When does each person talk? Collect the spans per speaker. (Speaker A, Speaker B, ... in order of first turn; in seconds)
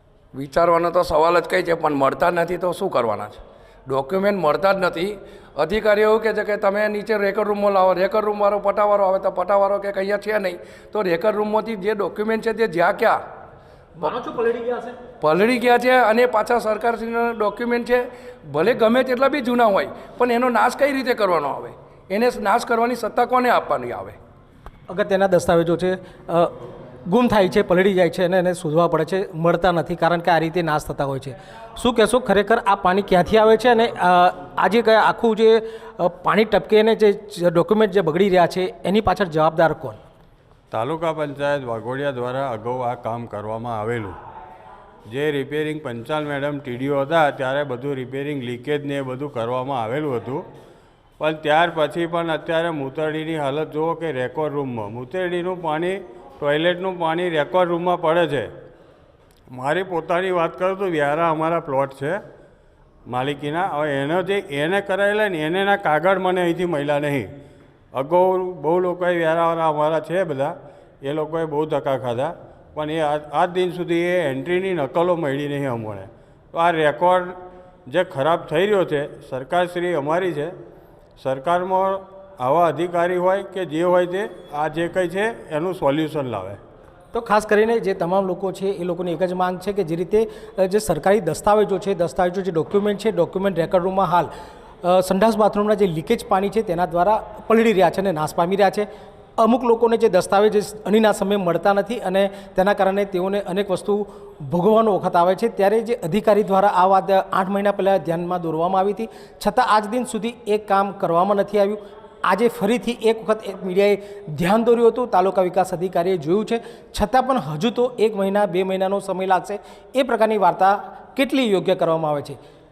Speaker A: 0.3-13.2, 15.2-24.2
Speaker B: 14.0-14.9, 24.9-26.5, 27.1-40.0, 87.1-94.3, 94.8-98.9, 99.4-122.4
Speaker C: 40.7-44.2, 45.1-50.4, 51.2-58.5, 59.5-62.2, 63.1-67.3, 67.9-77.3, 77.9-80.5, 81.2-86.6